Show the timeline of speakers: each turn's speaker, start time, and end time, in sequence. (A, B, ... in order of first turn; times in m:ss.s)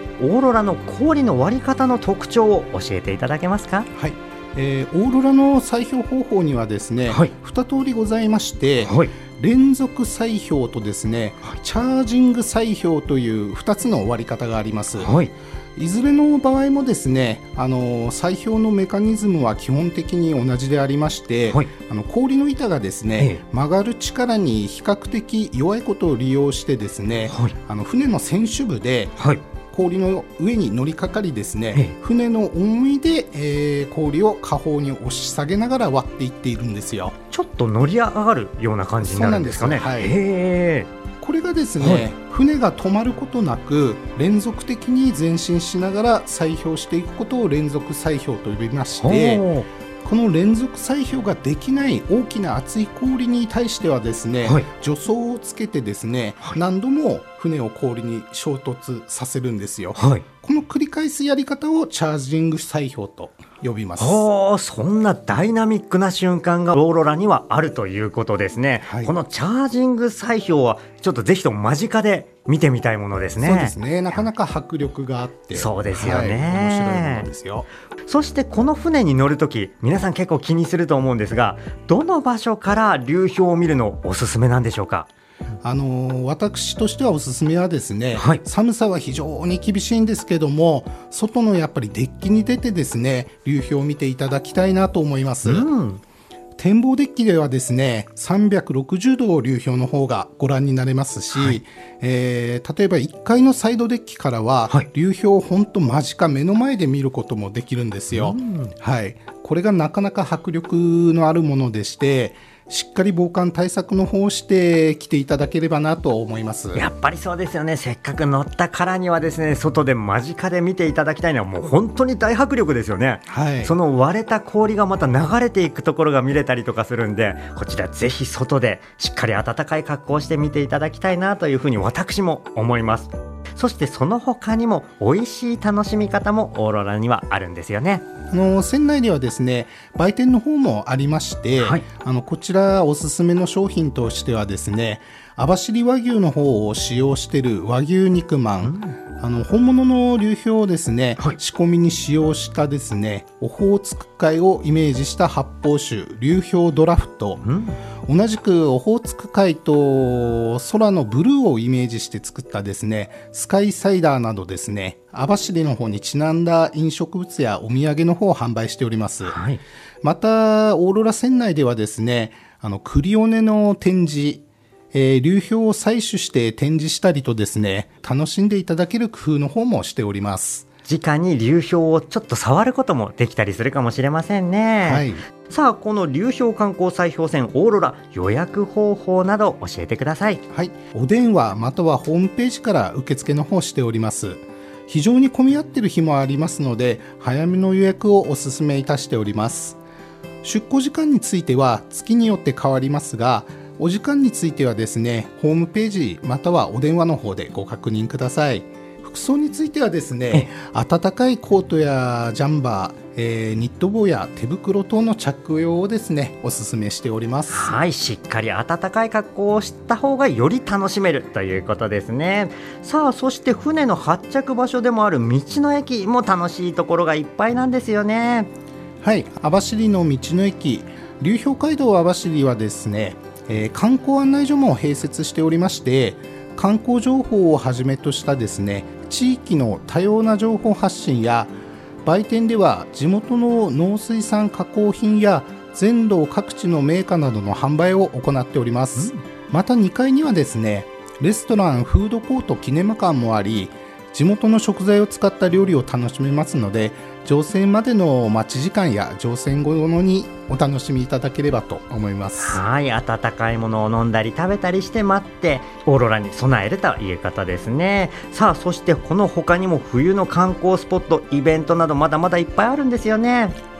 0:00.2-0:03.9 A
0:04.0-0:37.2 B
0:08.8-0:09.1 A
0:15.0-0:15.3 A
0:27.3-0:27.6 A
0:37.3-0:40.9 A
0:39.0-0:40.2 B
0:41.2-0:49.4 B
0:41.8-0:42.1 A
0:48.9-0:49.7 A
0:50.0-1:04.2 B
1:00.0-1:00.2 A
1:04.0-1:13.8 A
1:08.8-1:09.2 B
1:13.4-1:17.7 B
1:15.5-1:17.3 A
1:18.1-1:25.1 A
1:25.6-1:35.7 B
1:35.4-1:36.0 A
1:36.6-1:56.8 B
1:41.3-1:41.6 A
1:48.1-1:48.7 A
1:56.7-2:18.1 A
2:03.3-2:03.8 B
2:18.3-2:37.4 B
2:21.6-2:21.8 A
2:28.6-2:29.0 A
2:37.4-2:37.8 A
2:38.1-2:49.4 B
2:49.2-2:49.6 A
2:50.0-3:00.7 B
3:00.8-3:10.4 A
3:04.8-3:05.2 B
3:10.5-3:19.8 B
3:20.4-3:37.8 B
3:37.5-3:48.5 A
3:49.0-4:22.6 B
4:22.4-4:33.6 A